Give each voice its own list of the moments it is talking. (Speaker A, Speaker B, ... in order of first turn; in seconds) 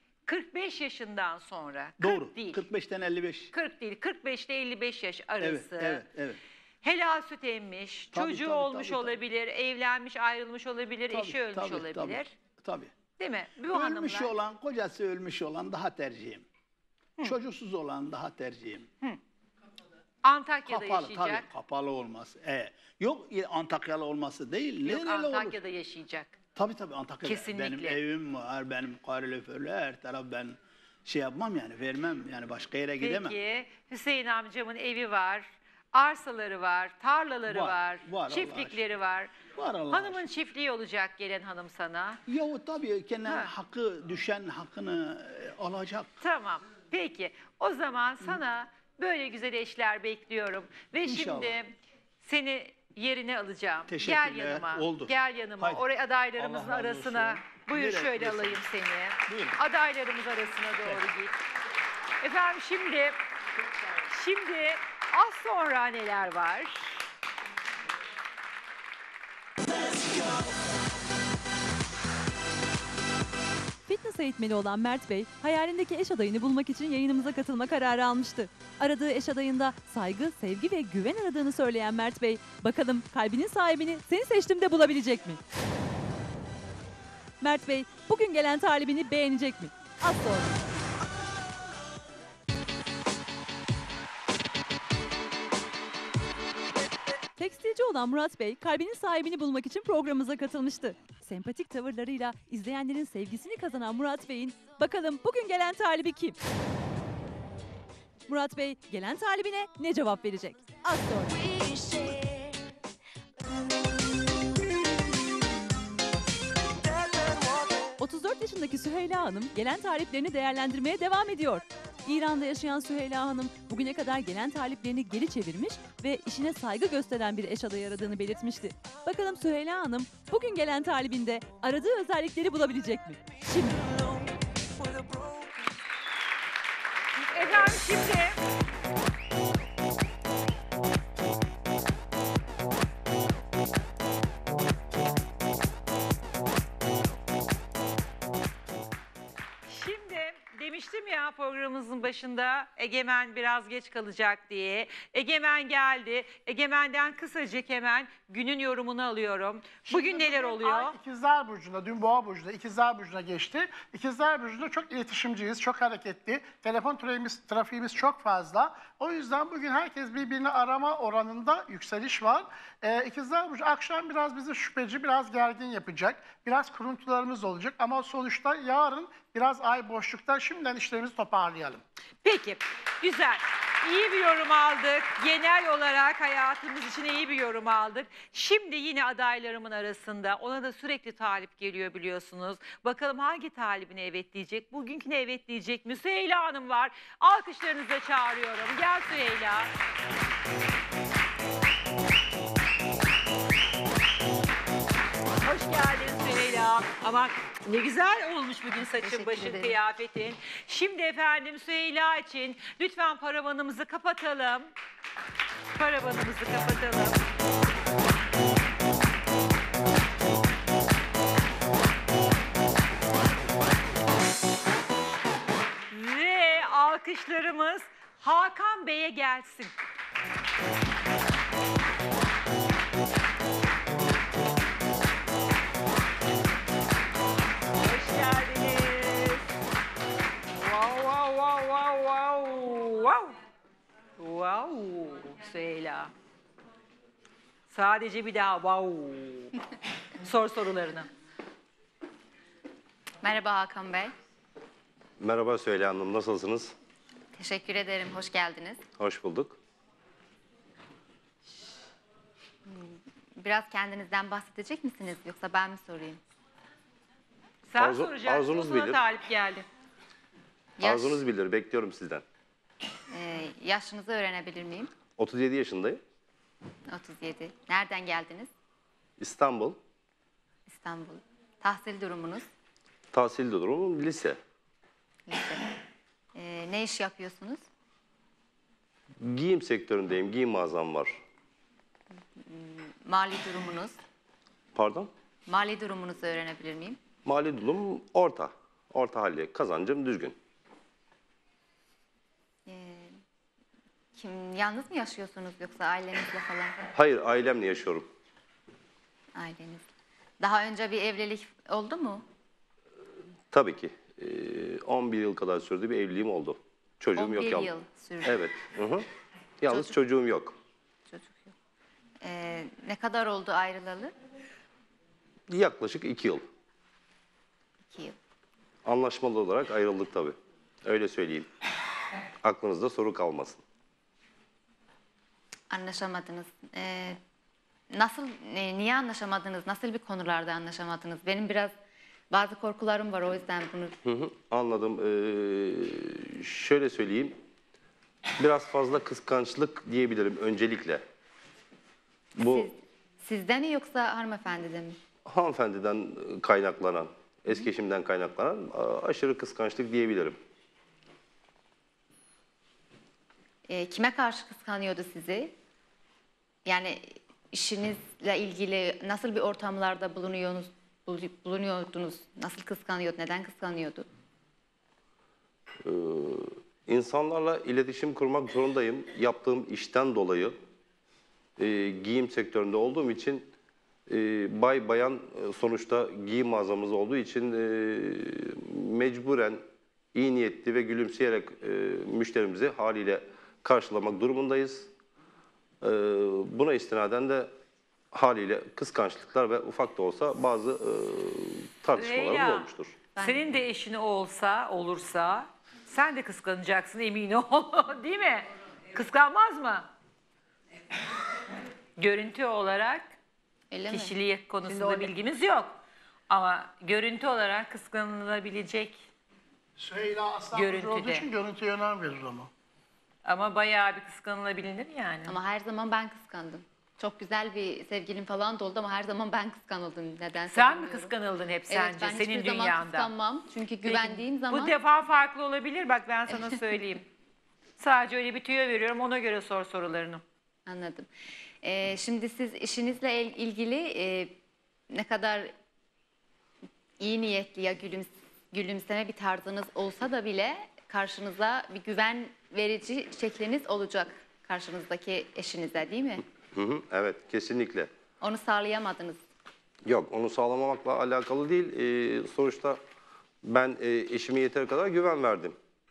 Speaker A: 0.2-2.6, 3.5-6.0, 6.8-12.3, 13.2-14.3, 20.2-21.4, 24.8-26.4, 27.2-28.0, 33.0-39.3, 39.9-42.2, 43.2-43.5, 46.2-61.3, 62.2-63.2, 64.1-67.1, 137.2-138.4, 149.7-161.0, 182.2-199.7, 205.4-214.7, 215.7-217.2, 225.9-229.7, 237.8-239.5, 240.5-243.4, 244.2-246.1, 247.7-249.5, 250.2-251.1, 267.7-269.6, 401.9-409.9, 412.0-413.1, 413.9-415.8, 416.3-419.0, 420.5-421.3, 423.2-425.4, 430.5-433.1, 433.8-437.0, 437.8-440.2
Speaker B: 2.0-3.5, 5.4-6.4, 8.1-9.2, 11.1-12.9, 13.7-16.4, 17.2-18.9, 20.7-25.6, 26.6-33.3, 37.5-38.8, 39.5-40.2, 42.3-46.2, 51.0-51.6, 53.9-55.8, 56.4-58.6, 59.3-59.6
Speaker C: 73.8-85.4, 87.4-90.6, 97.4-106.4, 108.3-111.4, 118.0-134.0
Speaker D: 159.8-181.8, 419.8-422.5
Speaker E: 209.0-209.8, 253.2-254.1, 257.4-258.8, 262.6-266.2, 270.8-271.2, 273.1-274.9, 276.9-278.5, 280.7-282.4, 285.3-285.7, 286.3-287.6, 292.5-294.0, 295.4-297.0, 302.6-303.1, 304.2-306.8, 309.3-309.8, 310.4-312.2, 317.1-318.5, 321.1-321.5, 322.2-324.1, 327.9-328.1, 335.7-337.2, 337.9-341.7, 342.3-344.0, 352.4-355.0, 363.7-365.5, 366.6-374.1, 403.2-403.4, 413.7-414.1, 425.3-431.1, 431.7-434.7, 440.6-441.1, 441.6-444.3, 444.9-445.5, 447.0-456.2, 458.2-459.2
Speaker F: 255.2-256.7, 259.0-259.6, 267.8-269.0, 270.8-272.2, 275.2-276.0, 279.2-279.8, 283.1-284.4, 289.2-291.2, 294.7-295.1, 297.2-300.4, 306.9-308.1, 313.5-317.7, 318.2-319.1, 319.6-320.6, 325.5-326.4, 328.8-331.5, 332.4-333.6, 344.0-347.4, 348.4-351.0, 352.4-352.7, 355.2-360.4, 375.8-380.5, 381.6-383.5, 384.1-389.6, 390.1-394.9, 395.8-397.5, 398.1-402.9, 456.5-457.9, 459.8-462.8, 463.4-465.6